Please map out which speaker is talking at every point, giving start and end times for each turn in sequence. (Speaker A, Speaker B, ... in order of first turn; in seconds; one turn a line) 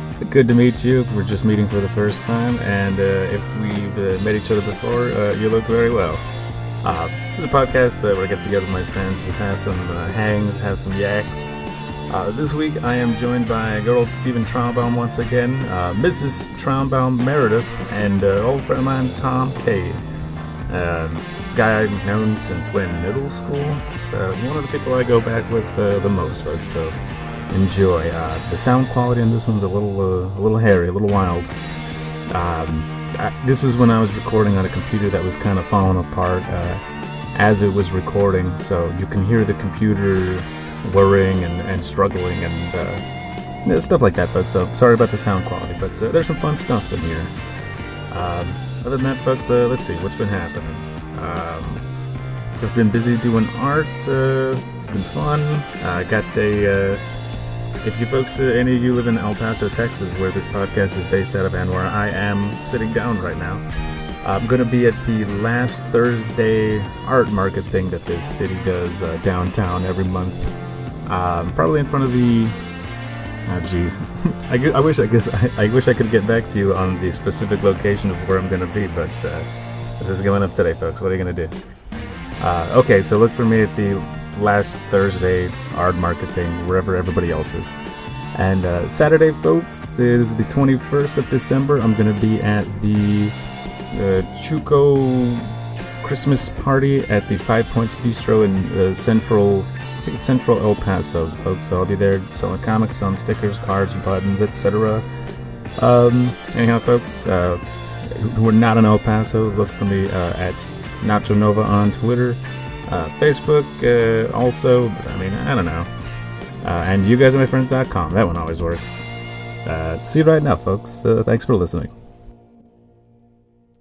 Speaker A: 0.2-6.2
Speaker A: 6.8-11.5
Speaker A: 12.1-20.0
Speaker A: 20.7-26.9
Speaker A: 27.5-31.5
Speaker A: 32.3-36.8
Speaker A: 37.3-43.0
Speaker A: 43.6-47.3
Speaker A: 48.1-51.8
Speaker A: 52.6-57.0
Speaker A: 57.8-63.6
Speaker A: 64.2-70.5
Speaker A: 71.0-72.5
Speaker A: 73.5-79.5
Speaker A: 80.0-81.5
Speaker A: 82.4-87.8
Speaker A: 88.3-93.3
Speaker A: 93.9-95.5
Speaker A: 96.0-105.0
Speaker A: 105.8-115.9
Speaker A: 116.6-119.0
Speaker A: 119.6-121.9